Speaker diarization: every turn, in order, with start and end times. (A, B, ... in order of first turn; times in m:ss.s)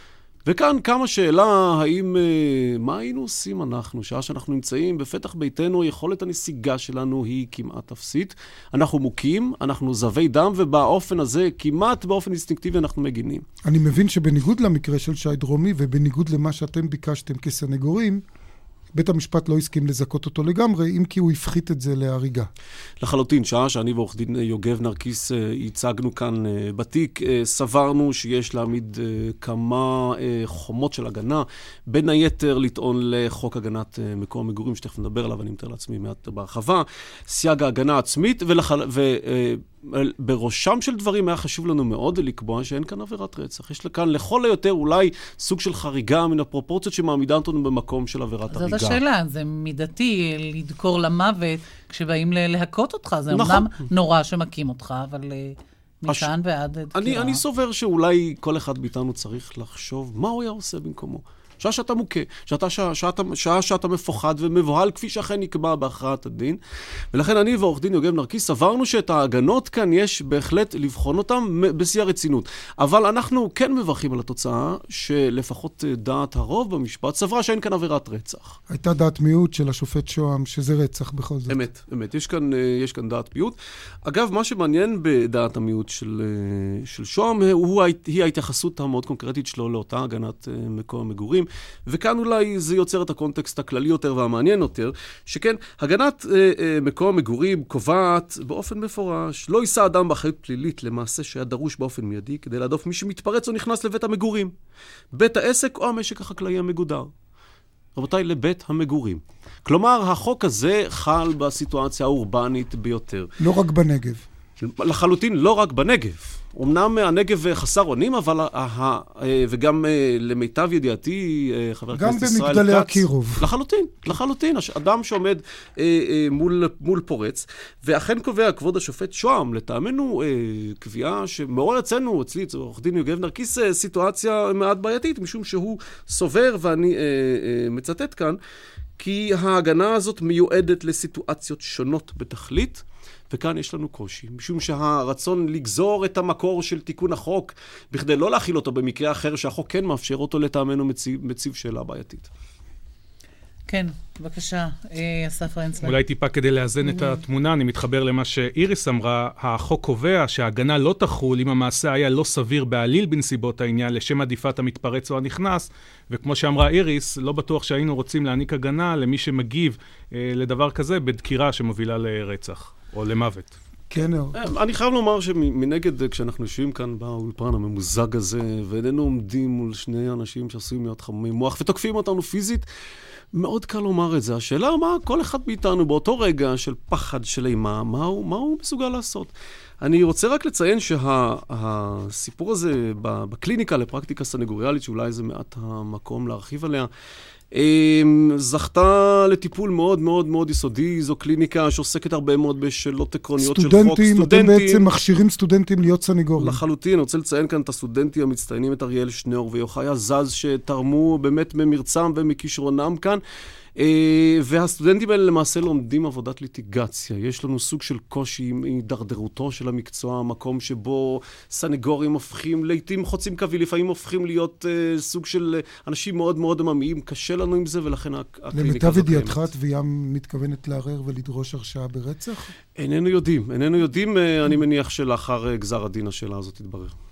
0:00.5-0:13.4 A
0:13.6-0:18.2 B
0:19.0-0:22.5 B
0:23.0-0:49.0 A
0:48.5-0:57.4 C
0:53.3-0:53.7 A
0:57.0-1:06.6 A
1:07.1-1:18.6 A
1:18.7-1:21.6 B
1:21.5-1:44.5 A
1:45.1-1:47.1 A
1:48.0-1:53.3 A
1:53.4-1:54.3 B
1:54.6-2:18.4 A
2:01.9-2:03.5 B
2:19.0-2:32.3 A
2:33.7-2:36.0 C
2:35.8-2:53.5 D
2:53.9-2:54.5 B
2:54.4-3:02.7 A
3:03.3-3:16.9 A
3:17.5-3:24.9 A
3:23.4-3:26.6 B
3:26.4-3:33.2 A
3:33.8-3:49.4 A
3:48.5-3:52.5 B
3:52.8-3:56.9 A